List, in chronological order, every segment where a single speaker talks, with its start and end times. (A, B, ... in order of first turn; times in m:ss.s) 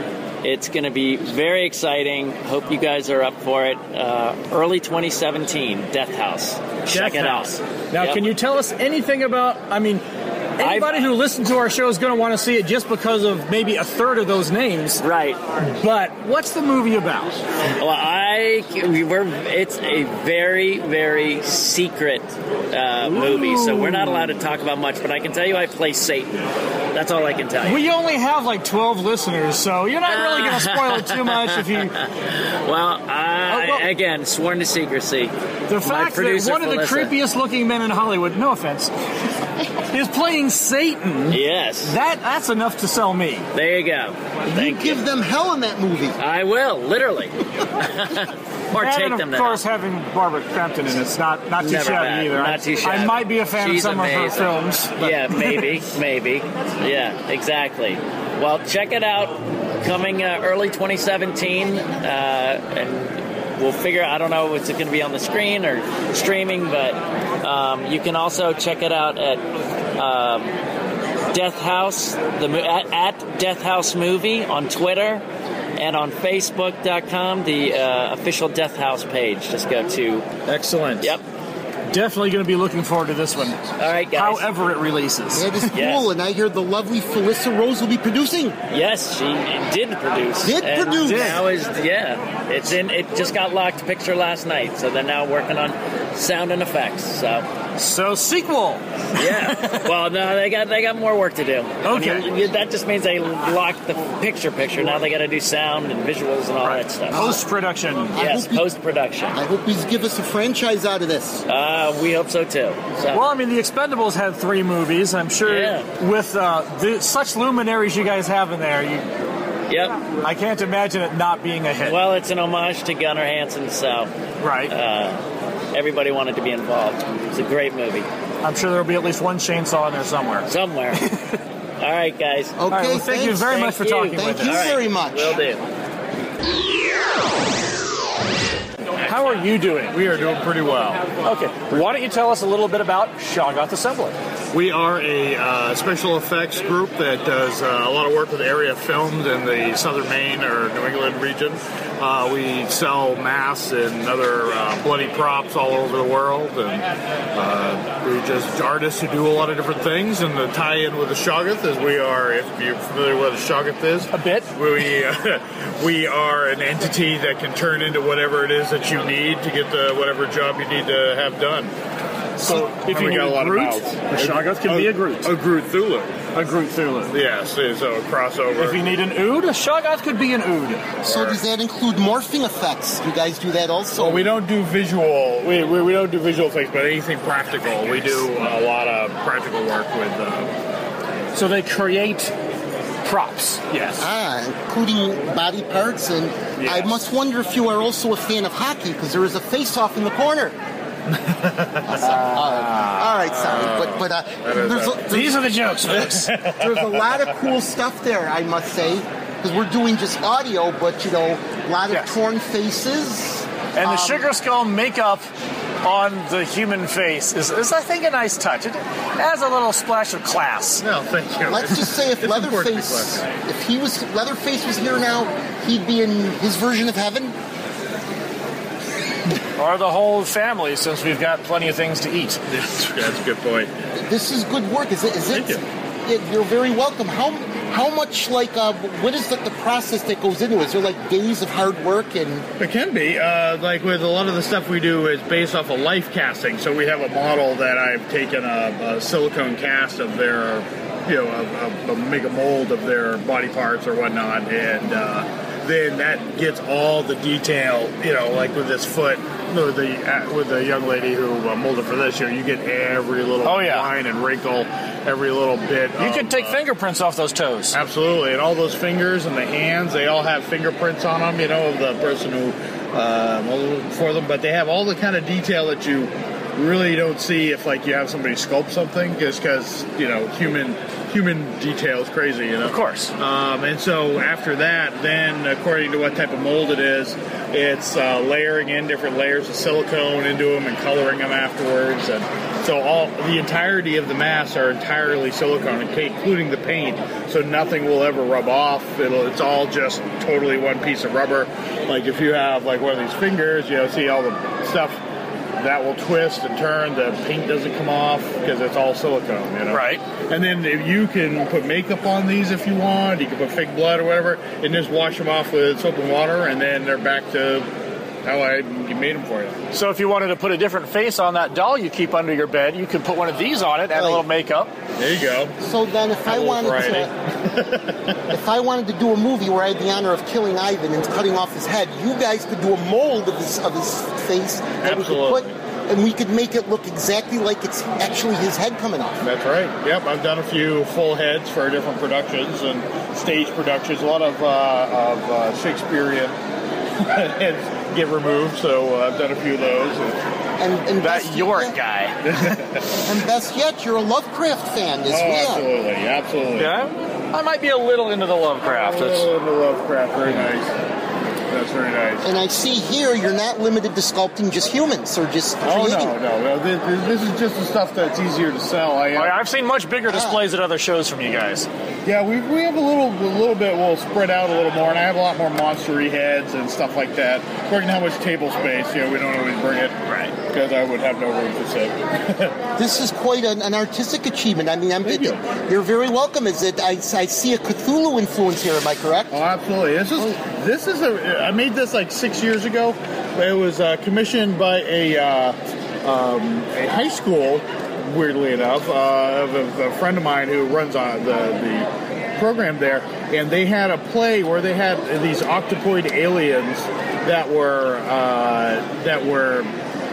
0:00.4-0:08.2 A
0:06.9-0:10.0 B
0:10.6-0:15.0 B
0:10.6-0:10.9 A
0:15.0-0:15.4 A
0:15.6-0:17.4 B
0:17.8-0:26.4 A
0:23.0-0:24.4 B
0:26.9-0:27.8 A
0:27.6-0:32.0 B
0:30.1-0:31.6 A
0:32.5-0:37.1 A
0:33.5-0:33.9 B
0:35.7-0:38.9 B
0:39.9-0:43.5 B
0:41.3-0:42.0 A
0:43.5-0:45.0 A
0:44.5-0:46.2 C
0:46.2-0:49.6 A
0:48.8-0:55.7 B
0:51.6-1:09.4 A
1:10.0-1:10.6 A
1:11.3-1:15.2 A
1:15.8-1:20.3 A
1:20.5-1:21.1 B
1:21.9-1:23.6 B
1:23.8-1:24.5 A
1:24.1-1:25.5 B
1:25.3-1:28.6 C
1:25.7-1:26.1 A
1:28.7-1:37.5 A
1:30.4-1:31.4 C
1:31.1-1:31.4 B
1:37.8-1:39.8 B
1:39.2-1:47.4 A
1:41.8-1:42.3 B
1:46.6-1:48.2 B
1:47.1-1:47.4 C
1:48.1-1:48.7 C
1:48.2-1:49.4 A
1:49.3-1:51.4 C
1:51.5-1:53.3 A
1:53.1-1:59.0 B
1:55.4-1:55.9 A
1:59.7-2:00.0 A
2:00.2-2:02.0 B
2:01.8-2:04.1 A
2:04.4-2:04.7 B
2:04.7-2:05.2 A
2:05.7-2:08.1 A
2:08.4-2:11.2 B
2:10.5-2:11.1 A
2:11.8-2:12.6 A
2:12.6-2:15.4 C
2:12.7-2:14.7 B
2:13.6-2:15.7 A
2:19.0-2:20.0 B
2:19.9-2:21.1 D
2:21.2-2:24.2 B
2:24.5-2:51.7 D
2:44.1-2:44.5 B
2:52.4-2:55.3 B
2:52.4-2:56.3 D
2:56.3-2:57.1 B
2:57.1-2:58.9 D
2:58.6-3:01.0 B
3:01.0-3:04.3 C
3:01.1-3:01.4 D
3:04.0-3:10.5 D
3:11.3-3:12.3 B
3:13.0-3:14.0 B
3:14.0-3:20.6 C
3:21.4-3:25.1 D
3:21.9-3:34.3 C
3:25.1-3:26.6 B
3:26.1-3:27.1 D
3:33.8-3:35.2 B
3:35.8-3:40.8 B
3:40.8-3:43.2 D
3:41.5-3:47.4 C
3:49.6-3:52.4 B
3:52.5-3:53.7 D
3:54.1-4:02.5 C
3:55.3-3:55.6 D
4:02.6-4:26.6 D
4:23.4-4:23.9 B
4:26.0-4:27.8 B
4:27.7-5:05.0 D
4:42.7-4:43.1 B
5:05.6-5:17.7 D
5:09.7-5:10.0 B
5:18.2-5:19.6 D
5:19.7-5:24.7 B
5:24.0-5:24.2 C
5:25.0-5:25.6 D
5:25.6-5:27.1 C
5:26.3-5:28.2 D
5:28.3-5:39.2 C
5:34.8-5:35.5 D
5:39.2-5:46.4 D
5:47.0-5:50.1 D
5:50.6-5:51.8 C
5:51.0-5:52.6 B
5:53.1-5:55.7 C
5:55.1-5:56.8 D
5:56.6-5:59.3 B
5:58.6-6:00.7 D
6:01.5-6:02.2 D
6:02.2-6:06.2 C
6:05.6-6:09.4 D
6:09.2-6:11.7 B
6:10.1-6:10.4 C
6:12.0-6:22.6 D
6:20.1-6:20.3 B
6:22.8-6:29.4 C
6:25.0-6:25.4 D
6:29.3-6:49.7 D